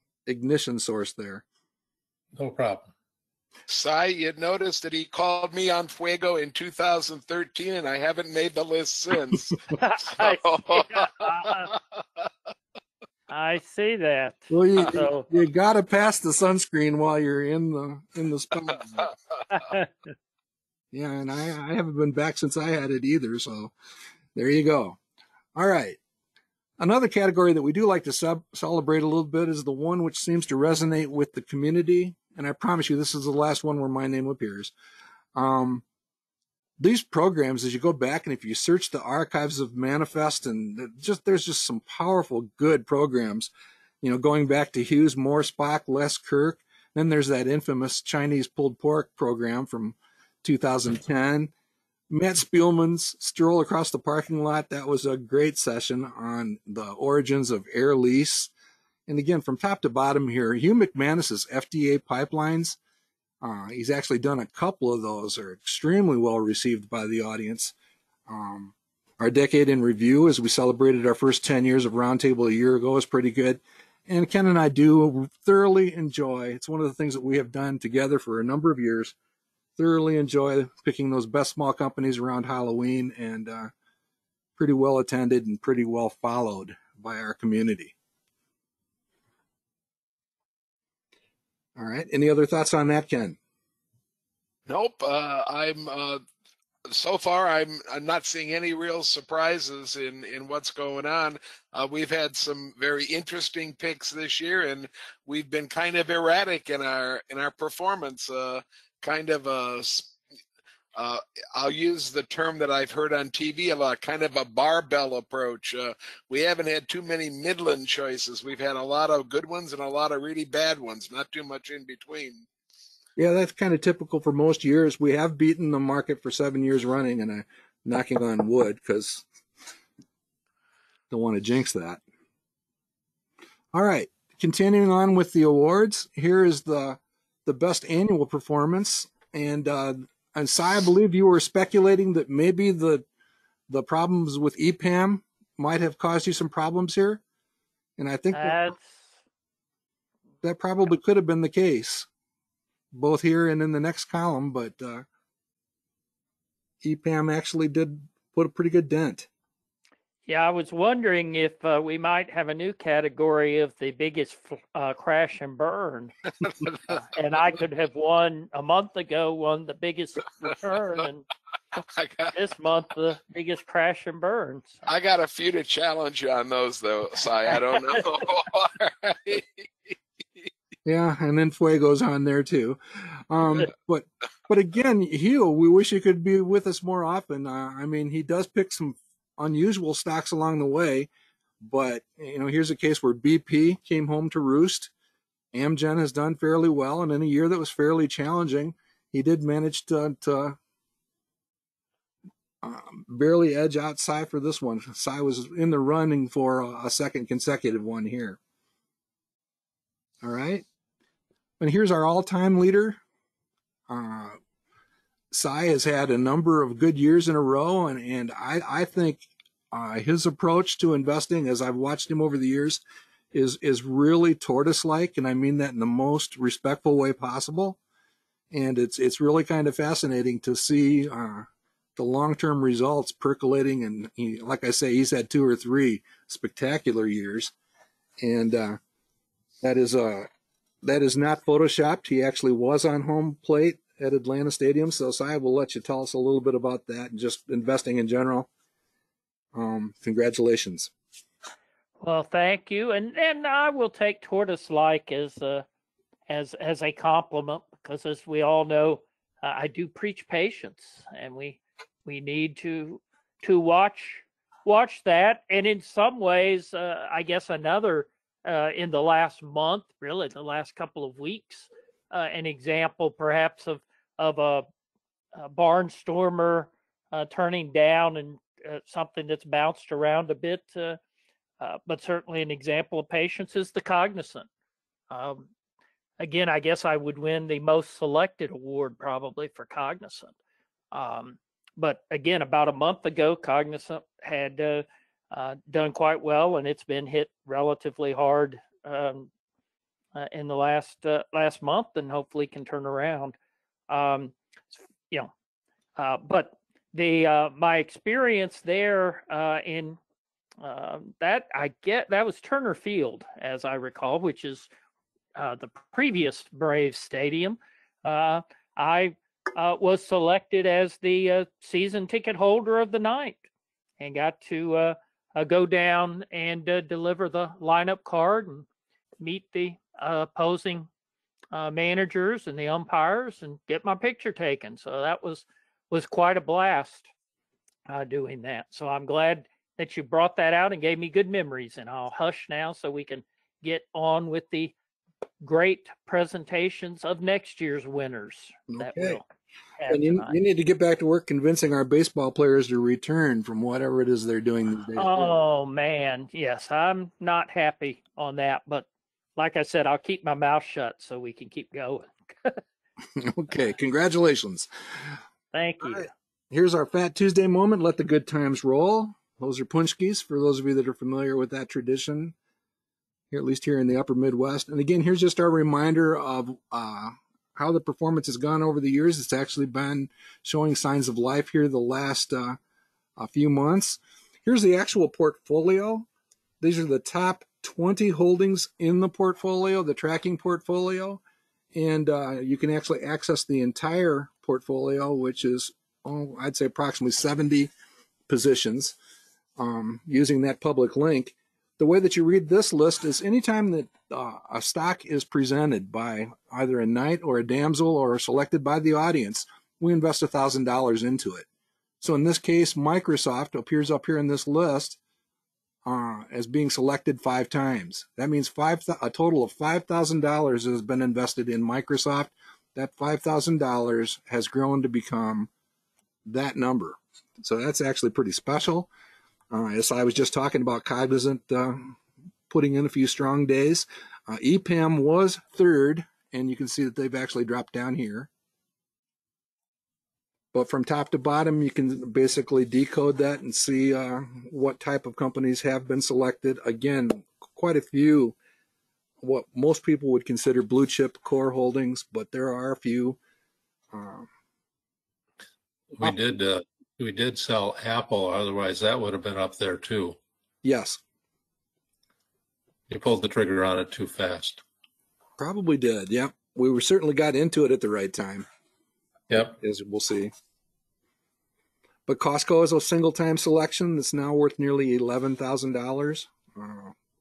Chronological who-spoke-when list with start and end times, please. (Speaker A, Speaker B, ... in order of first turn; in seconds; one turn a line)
Speaker A: 0.2-1.4
Speaker B: 2.4-2.9
Speaker C: 3.7-9.6
Speaker D: 9.7-11.7
Speaker C: 10.2-11.8
Speaker D: 13.3-15.3
Speaker A: 14.5-19.1
Speaker D: 19.5-19.9
Speaker A: 20.9-23.7
Speaker A: 24.3-25.0
Speaker A: 25.5-26.0
Speaker A: 26.8-34.7
Speaker A: 35.3-35.8
Speaker A: 36.8-43.5
Speaker A: 44.0-51.5
Speaker A: 52.1-58.5
Speaker A: 59.1-62.8
Speaker A: 63.4-67.7
Speaker A: 68.3-79.1
Speaker A: 79.8-83.7
Speaker A: 84.6-87.9
Speaker A: 91.8-93.4
Speaker C: 94.7-96.2
Speaker C: 96.9-110.1
Speaker C: 110.9-122.5
Speaker A: 123.2-129.2
Speaker A: 131.1-132.0
Speaker A: 133.7-143.1
Speaker A: 143.7-147.2
Speaker A: 148.0-148.7
Speaker D: 148.3-148.9
Speaker A: 150.4-152.1
Speaker A: 152.9-155.1
Speaker A: 156.8-159.3
Speaker D: 160.3-166.1
Speaker D: 166.9-171.2
Speaker C: 171.9-172.3
Speaker D: 172.3-174.8
Speaker C: 174.8-179.6
Speaker A: 180.8-191.1
Speaker A: 191.6-194.9
Speaker A: 195.5-200.6
Speaker A: 202.6-208.4
Speaker A: 210.2-210.7
Speaker A: 211.6-213.0
Speaker A: 213.9-214.4
Speaker A: 215.3-227.8
Speaker A: 228.5-237.5
Speaker A: 238.2-238.8
Speaker A: 239.6-240.3
Speaker A: 240.8-248.5
Speaker A: 249.5-250.9
Speaker D: 252.0-255.7
Speaker D: 256.3-274.6
Speaker D: 275.3-281.0
Speaker D: 281.6-284.5
Speaker D: 285.1-285.5
Speaker D: 286.2-290.3
Speaker D: 290.9-299.3
Speaker D: 300.1-303.4
Speaker D: 303.9-304.3
Speaker D: 306.0-310.0
Speaker D: 310.6-314.7
Speaker D: 315.3-323.4
Speaker D: 324.0-328.6
Speaker D: 329.2-330.9
Speaker D: 331.5-337.1
Speaker D: 337.9-344.7
Speaker D: 345.4-349.2
Speaker A: 348.7-349.2
Speaker D: 349.8-350.4
Speaker A: 349.9-355.3
Speaker D: 354.9-362.6
Speaker A: 363.1-364.7
Speaker D: 365.5-366.1
Speaker A: 365.8-372.3
Speaker A: 373.3-382.6
Speaker A: 383.2-386.1
Speaker A: 386.6-391.2
Speaker A: 391.7-397.7
Speaker A: 398.3-399.0
Speaker A: 399.6-411.4
Speaker A: 412.0-415.0
Speaker A: 415.8-425.5
Speaker A: 426.2-428.9
Speaker A: 429.5-432.0
Speaker A: 432.5-438.3
Speaker A: 440.5-448.4
Speaker A: 449.2-453.2
Speaker A: 453.9-454.3
Speaker B: 455.9-460.2
Speaker A: 460.6-461.0
Speaker B: 462.9-464.6
Speaker A: 465.4-468.5
Speaker B: 469.3-469.6
Speaker A: 469.4-470.3
Speaker A: 472.1-476.9